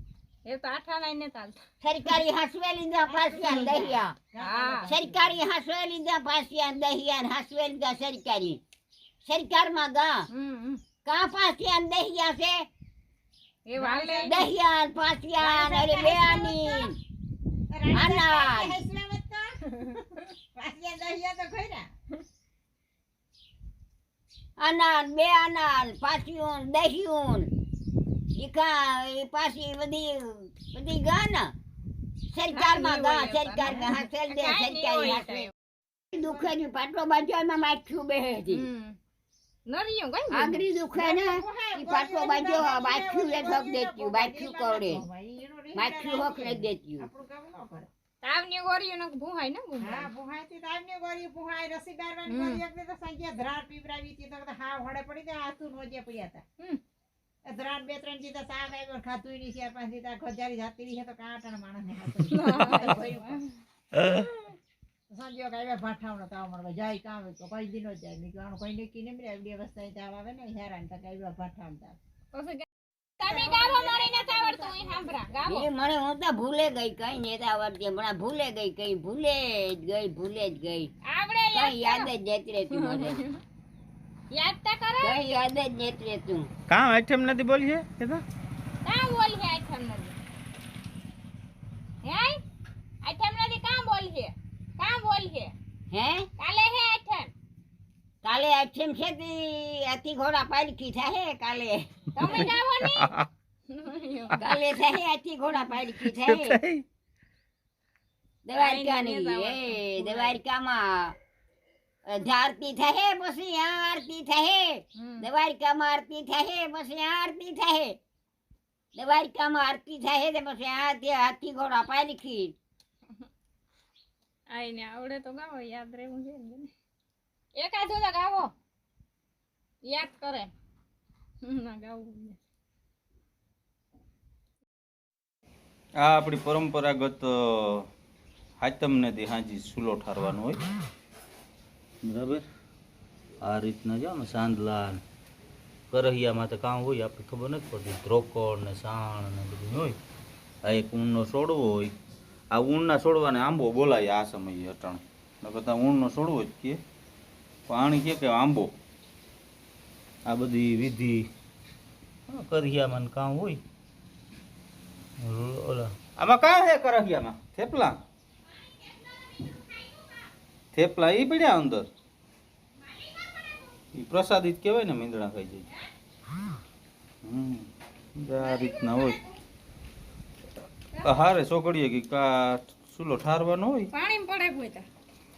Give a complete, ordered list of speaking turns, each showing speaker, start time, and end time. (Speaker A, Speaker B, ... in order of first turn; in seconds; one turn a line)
Speaker A: 0.5-1.6
Speaker B: 1.8-4.1
Speaker C: 3.0-5.4
Speaker A: 4.4-4.9
Speaker B: 4.9-8.6
Speaker B: 9.2-10.3
Speaker A: 10.3-10.8
Speaker B: 11.0-12.6
Speaker A: 13.7-14.5
Speaker C: 13.8-14.5
Speaker B: 14.2-16.9
Speaker C: 15.4-16.9
Speaker C: 17.7-21.9
Speaker B: 17.9-18.8
Speaker B: 24.6-27.5
Speaker B: 28.3-31.5
Speaker B: 32.3-35.5
Speaker A: 32.5-35.5
Speaker B: 36.1-38.6
Speaker C: 36.1-36.5
Speaker A: 38.5-39.0
Speaker A: 39.7-40.6
Speaker B: 40.3-45.0
Speaker C: 40.9-47.9
Speaker B: 45.7-47.1
Speaker A: 48.2-50.1
Speaker C: 49.8-56.4
Speaker A: 52.3-52.6
Speaker C: 57.4-63.4
Speaker A: 62.1-63.6
Speaker D: 63.9-64.3
Speaker C: 65.1-72.0
Speaker A: 72.3-72.7
Speaker A: 73.2-75.7
Speaker C: 73.2-75.4
Speaker B: 75.5-80.9
Speaker A: 81.0-82.1
Speaker B: 81.5-83.2
Speaker A: 82.7-83.4
Speaker A: 84.3-85.2
Speaker B: 85.0-86.5
Speaker D: 86.7-88.2
Speaker A: 88.8-90.2
Speaker A: 92.0-92.4
Speaker A: 93.0-95.5
Speaker B: 95.9-96.3
Speaker A: 96.4-97.3
Speaker B: 98.2-102.5
Speaker A: 102.1-103.1
Speaker D: 102.8-103.3
Speaker A: 103.7-104.5
Speaker B: 104.4-106.6
Speaker D: 106.0-106.8
Speaker B: 108.5-111.2
Speaker A: 108.5-110.4
Speaker B: 112.1-118.0
Speaker A: 115.0-115.3
Speaker B: 118.9-122.5
Speaker A: 124.5-126.7
Speaker A: 127.5-128.5
Speaker A: 129.8-130.5
Speaker A: 131.4-132.4
Speaker D: 136.0-137.9
Speaker D: 138.6-140.6
Speaker D: 142.0-142.4
Speaker D: 143.4-145.0
Speaker D: 145.9-150.0
Speaker D: 150.6-151.9
Speaker D: 152.5-156.8
Speaker D: 157.7-158.7
Speaker D: 160.2-161.3
Speaker D: 162.3-163.6
Speaker D: 165.2-168.0
Speaker A: 168.5-170.3
Speaker D: 170.7-171.9
Speaker A: 172.8-173.7
Speaker D: 173.9-175.7
Speaker D: 177.2-179.2
Speaker A: 178.4-179.3
Speaker A: 180.9-181.2
Speaker D: 181.0-183.9
Speaker A: 183.9-184.8